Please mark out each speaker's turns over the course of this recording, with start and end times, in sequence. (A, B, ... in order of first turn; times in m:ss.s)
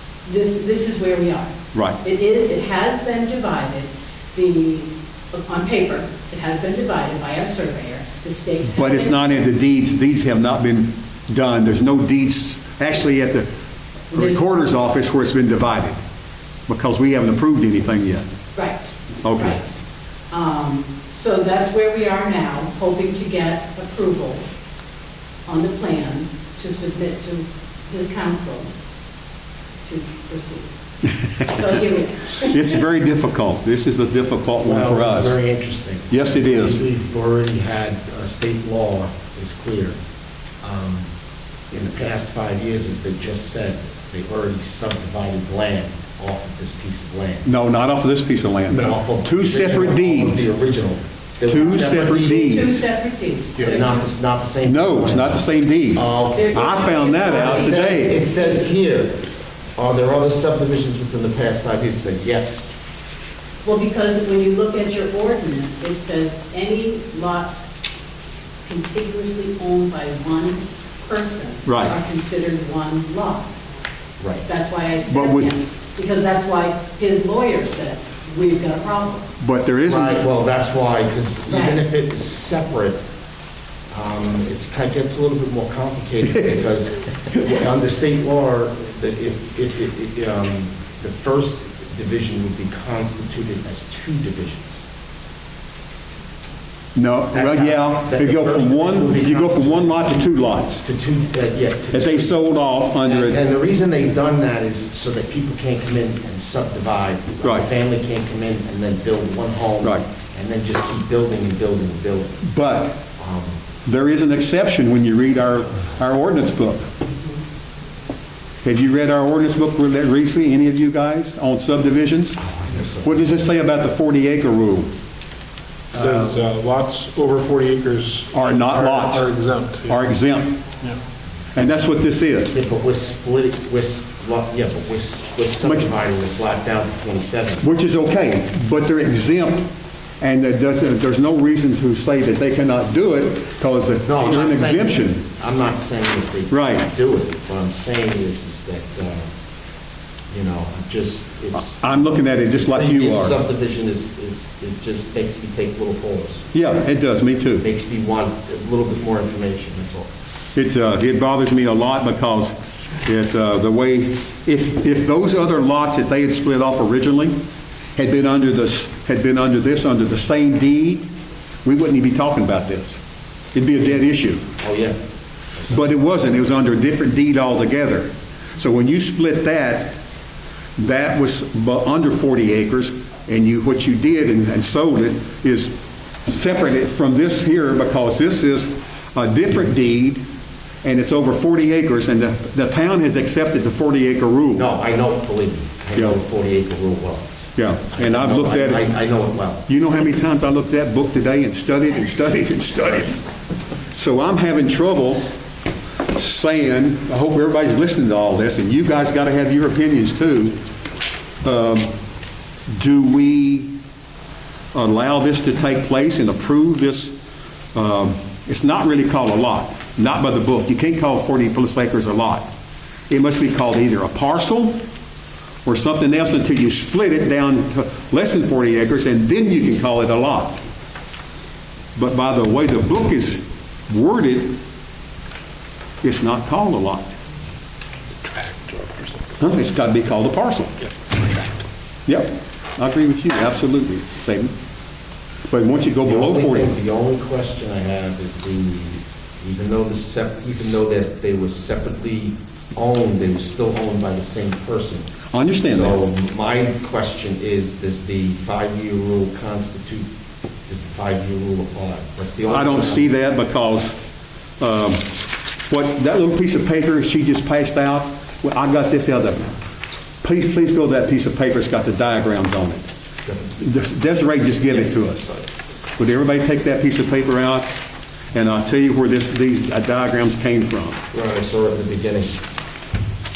0:00.2-0:09.2 A
0:01.7-0:02.0 B
0:08.6-0:13.5 B
0:14.1-0:14.4 A
0:14.1-0:16.0 B
0:16.7-0:18.2 B
0:18.5-0:19.7 A
0:19.2-0:19.6 B
0:20.3-0:24.4 A
0:25.4-0:28.7 A
0:29.8-0:30.7 A
0:31.3-0:32.7 A
0:32.4-0:35.4 B
0:34.6-0:40.0 C
0:36.1-0:36.8 B
0:40.6-0:41.1 C
0:41.7-0:47.4 C
0:47.4-0:50.5 B
0:48.7-0:52.6 C
0:51.4-0:52.7 B
0:51.5-0:54.0 A
0:53.6-0:59.2 C
0:54.6-0:58.2 B
0:56.3-0:58.6 A
0:59.8-1:02.7 C
1:03.6-1:07.7 A
1:08.6-1:13.6 A
1:11.6-1:11.9 B
1:14.2-1:14.5 C
1:14.4-1:19.3 A
1:15.1-1:15.5 B
1:19.4-1:20.2 B
1:19.8-1:23.0 C
1:21.5-1:21.8 A
1:23.9-1:34.8 C
1:26.3-1:26.6 B
1:36.9-1:40.8 B
1:37.3-1:42.4 C
1:41.9-1:43.4 B
1:43.0-1:52.4 C
1:52.4-1:53.0 B
1:53.2-1:53.6 C
1:53.8-1:56.9 B
1:58.6-2:02.4 B
2:02.4-2:03.3 C
2:03.0-2:04.9 B
2:05.9-2:10.0 D
2:08.3-2:09.3 B
2:09.8-2:10.6 B
2:11.5-2:12.5 B
2:12.4-2:17.6 C
2:15.6-2:15.9 B
2:17.6-2:25.2 B
2:24.0-2:29.2 C
2:26.5-2:26.9 B
2:30.3-2:36.5 C
2:31.5-2:33.4 B
2:36.5-2:37.6 B
2:37.6-2:40.1 C
2:40.5-2:47.4 B
2:47.9-2:51.1 B
2:51.6-2:53.0 B
2:53.5-2:54.5 B
2:54.6-2:55.0 C
2:55.7-3:00.0 B
3:00.8-3:05.7 B
3:06.3-3:10.2 B
3:10.8-3:14.7 B
3:14.5-3:17.3 C
3:17.6-3:18.9 B
3:17.8-3:19.6 C
3:19.7-3:23.1 B
3:23.9-3:25.2 B
3:26.1-3:30.6 B
3:31.4-3:31.9 B
3:32.7-3:33.8 B
3:34.7-3:37.2 B
3:37.7-3:42.5 B
3:43.1-3:44.8 B
3:45.6-3:50.6 B
3:51.9-3:54.6 B
3:56.0-3:57.1 B
3:58.2-3:59.2 D
3:59.4-4:00.7 B
4:02.1-4:04.5 B
4:05.5-4:06.7 B
4:06.0-4:20.0 C
4:15.3-4:16.0 B
4:20.7-4:23.1 C
4:22.4-4:24.0 B
4:24.6-4:25.1 B
4:25.7-4:29.5 B
4:30.2-4:32.8 B
4:33.2-4:33.6 C
4:33.6-4:35.3 B
4:34.7-4:35.3 C
4:36.0-4:37.8 B
4:38.3-4:41.0 B
4:41.1-4:42.4 C